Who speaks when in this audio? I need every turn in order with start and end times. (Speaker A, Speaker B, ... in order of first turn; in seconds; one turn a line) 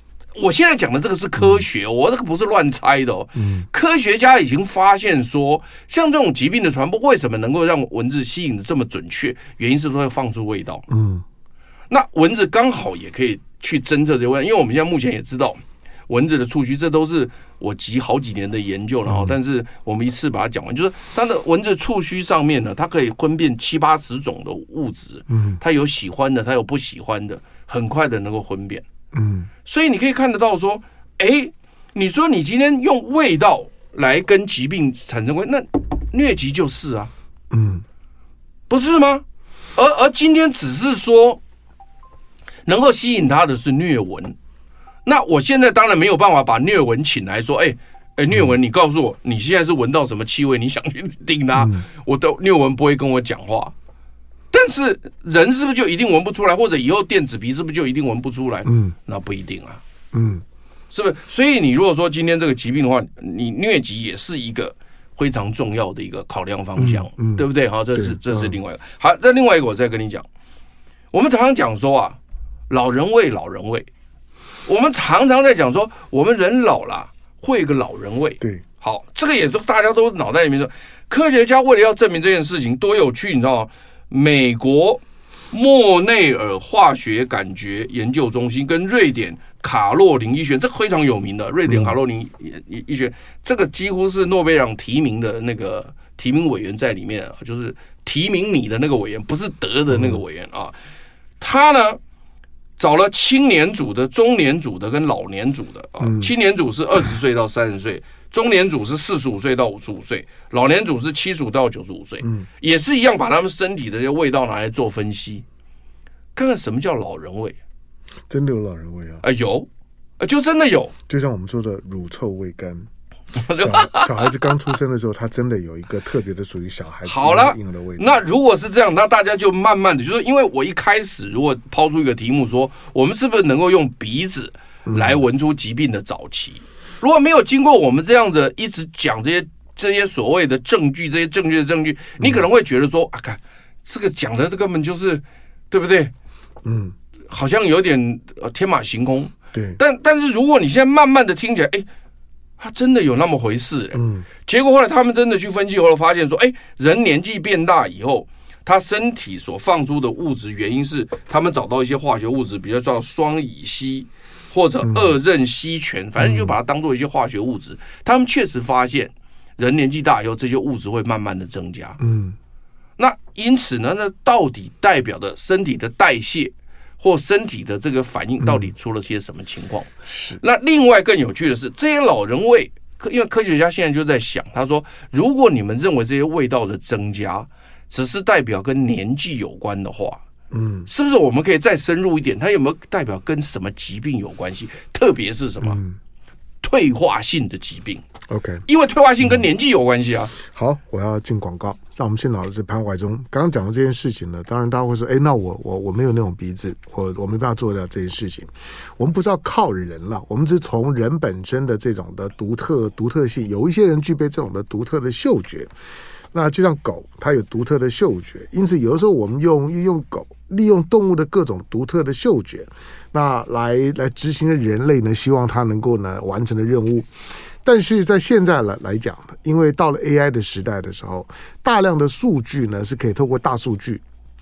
Speaker A: 0.4-10.9
Speaker B: 1.4-1.6
Speaker B: 3.4-3.7
Speaker B: 10.9-11.2
Speaker A: 11.9-28.9
Speaker B: 19.1-19.4
Speaker B: 25.3-25.6
Speaker B: 29.1-29.5
Speaker A: 29.6-37.1
Speaker B: 37.5-37.8
Speaker A: 38.7-39.2
Speaker A: 39.8-41.4
Speaker A: 42.7-44.4
Speaker A: 45.0-53.7
Speaker B: 51.6-51.8
Speaker A: 54.5-59.8
Speaker B: 58.7-59.0
Speaker B: 60.1-60.4
Speaker A: 60.9-70.3
Speaker B: 66.8-68.5
Speaker A: 71.1-72.2
Speaker A: 72.7-73.9
Speaker A: 74.7-100.7
Speaker B: 91.7-92.0
Speaker B: 99.9-100.2
Speaker A: 101.4-102.0
Speaker A: 102.8-115.5
Speaker B: 106.0-106.3
Speaker A: 116.3-117.6
Speaker B: 118.3-119.2
Speaker A: 119.2-119.7
Speaker A: 120.2-120.9
Speaker B: 121.1-122.9
Speaker A: 123.3-124.5
Speaker B: 123.5-128.2
Speaker A: 127.0-146.1
Speaker B: 134.8-135.2
Speaker B: 146.6-146.9
Speaker A: 147.3-151.9
Speaker B: 149.5-149.8
Speaker A: 152.6-172.0
Speaker B: 153.9-154.3
Speaker B: 164.8-165.2
Speaker B: 166.2-166.5
Speaker B: 172.0-172.4
Speaker A: 173.0-190.2
Speaker B: 178.4-178.7
Speaker B: 180.1-180.4
Speaker B: 190.5-190.9
Speaker A: 190.9-195.8
Speaker B: 195.6-196.0
Speaker A: 196.6-198.0
Speaker B: 198.3-198.6
Speaker A: 198.7-200.3
Speaker B: 200.3-215.7
Speaker B: 216.3-227.1
Speaker B: 227.6-234.0